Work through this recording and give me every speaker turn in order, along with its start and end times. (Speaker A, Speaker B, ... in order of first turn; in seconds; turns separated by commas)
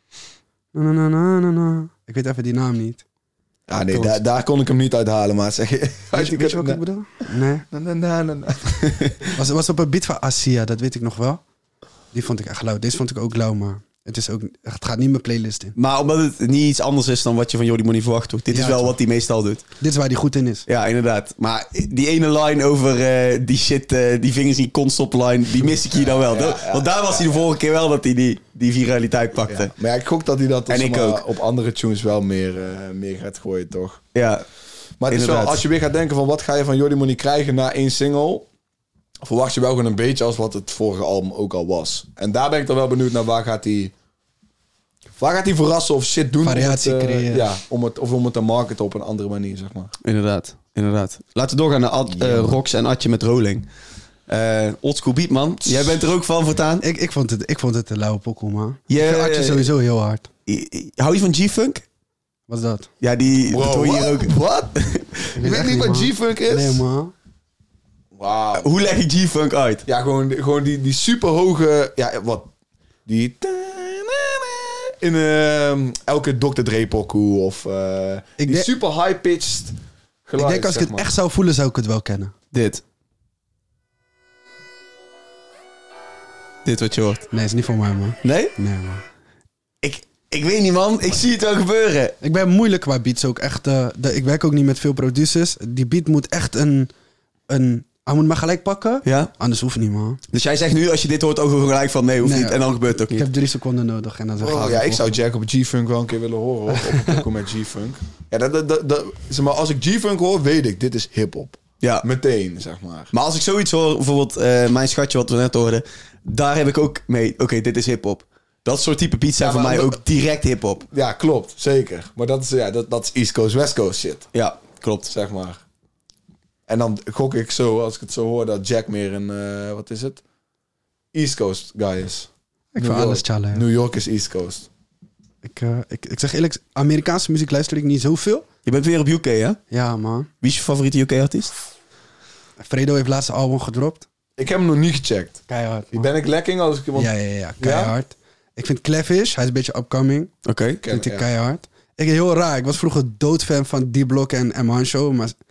Speaker A: 0.7-3.0, Speaker B: 3.7-6.8, Speaker C: 3.8-4.2, Speaker A: 6.1-7.7, Speaker B: 7.7-9.1, Speaker A: 9.3-11.4, Speaker A: 12.1-15.8, Speaker C: 15.8-19.6, Speaker A: 18.5-18.9, Speaker A: 19.8-20.6, Speaker C: 20.7-29.7, Speaker B: 25.9-27.4, Speaker B: 29.5-34.0, Speaker C: 30.7-31.2, Speaker C: 34.1-34.4, Speaker B: 35.0-38.5, Speaker C: 35.1-35.6, Speaker B: 39.2-43.9, Speaker B: 45.2-49.9, Speaker A: 46.4-47.4, Speaker C: 50.0-53.7, Speaker B: 52.1-52.6, Speaker C: 54.3-56.8, Speaker B: 55.6-56.1, Speaker A: 56.8-60.3, Speaker C: 58.9-59.7, Speaker C: 60.5-61.8, Speaker A: 62.5-62.9, Speaker C: 63.0-65.4, Speaker B: 63.5-64.7, Speaker B: 65.3-66.8, Speaker A: 65.4-67.1, Speaker B: 68.1-68.8, Speaker C: 68.5-69.8, Speaker B: 69.8-72.5, Speaker B: 73.0-81.1, Speaker A: 78.4-78.7, Speaker A: 80.4-82.3, Speaker C: 82.5-82.8, Speaker C: 86.6-87.2, Speaker A: 87.3-89.0, Speaker C: 88.2-88.5, Speaker C: 89.8-92.2, Speaker A: 92.2-96.9, Speaker A: 97.5-100.2, Speaker C: 99.0-99.3, Speaker C: 100.3-103.3, Speaker A: 102.2-105.1, Speaker B: 104.4-113.1, Speaker C: 111.8-112.0, Speaker C: 113.1-120.8, Speaker B: 119.4-120.0, Speaker B: 120.9-124.3, Speaker C: 124.3-125.1, Speaker B: 125.1-125.6, Speaker B: 126.7-130.2, Speaker B: 131.1-134.7, Speaker A: 132.7-133.6, Speaker A: 135.4-138.4, Speaker C: 138.6-139.6, Speaker A: 139.7-140.3, Speaker C: 140.4-141.5, Speaker A: 142.6-144.1, Speaker B: 144.4-147.9, Speaker A: 145.5-146.1, Speaker A: 146.9-150.3, Speaker C: 150.4-150.8, Speaker B: 150.8-151.2, Speaker A: 150.9-155.3